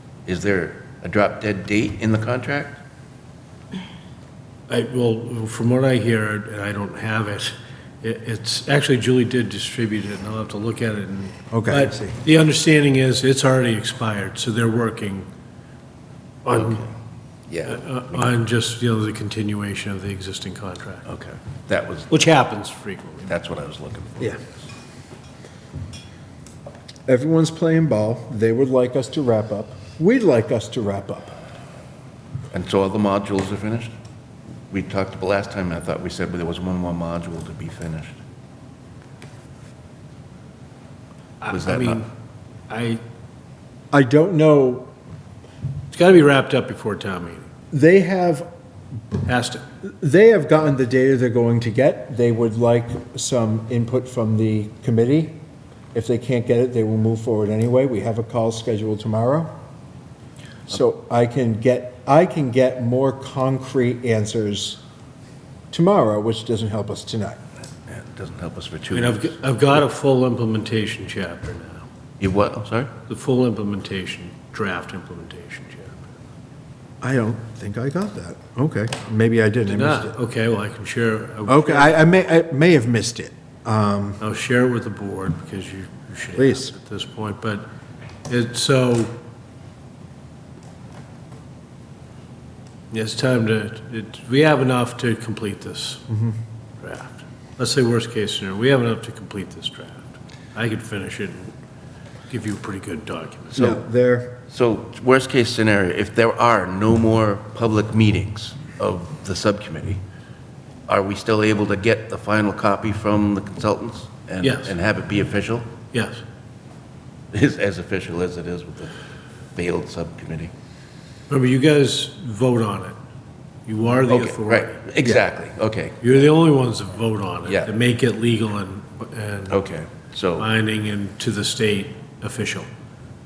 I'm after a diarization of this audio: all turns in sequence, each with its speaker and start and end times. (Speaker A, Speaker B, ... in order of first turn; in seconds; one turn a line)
Speaker A: 0.3-2.8
Speaker B: 4.7-15.3
Speaker C: 11.5-12.2
Speaker B: 16.4-16.8
Speaker A: 16.5-16.9
Speaker A: 17.5-18.3
Speaker B: 17.7-21.1
Speaker A: 21.1-22.3
Speaker B: 22.1-23.4
Speaker A: 23.3-24.5
Speaker C: 27.1-31.4
Speaker A: 32.5-33.9
Speaker A: 34.7-38.2
Speaker B: 41.4-42.1
Speaker A: 41.5-42.0
Speaker B: 42.7-43.0
Speaker C: 43.9-44.9
Speaker B: 45.9-47.5
Speaker C: 47.7-48.5
Speaker B: 49.3-49.6
Speaker C: 49.8-55.4
Speaker C: 55.9-59.5
Speaker C: 60.7-64.8
Speaker C: 65.7-67.4
Speaker A: 67.9-69.8
Speaker B: 68.9-71.8
Speaker A: 72.2-72.9
Speaker B: 73.1-76.1
Speaker C: 77.0-80.2
Speaker B: 79.7-82.0
Speaker C: 81.5-84.2
Speaker B: 84.2-87.7
Speaker C: 86.4-86.7
Speaker B: 88.3-89.1
Speaker B: 92.9-96.0
Speaker C: 96.1-96.4
Speaker B: 96.8-101.5
Speaker B: 102.3-103.7
Speaker A: 103.5-103.8
Speaker C: 103.6-104.3
Speaker A: 104.5-110.0
Speaker A: 110.9-115.7
Speaker B: 114.4-114.8
Speaker B: 115.9-116.2
Speaker A: 117.3-119.0
Speaker A: 119.5-120.5
Speaker B: 121.3-123.0
Speaker B: 123.7-124.8
Speaker A: 124.1-126.2
Speaker B: 126.0-129.6
Speaker A: 127.5-127.7
Speaker A: 129.5-130.5
Speaker B: 130.4-132.7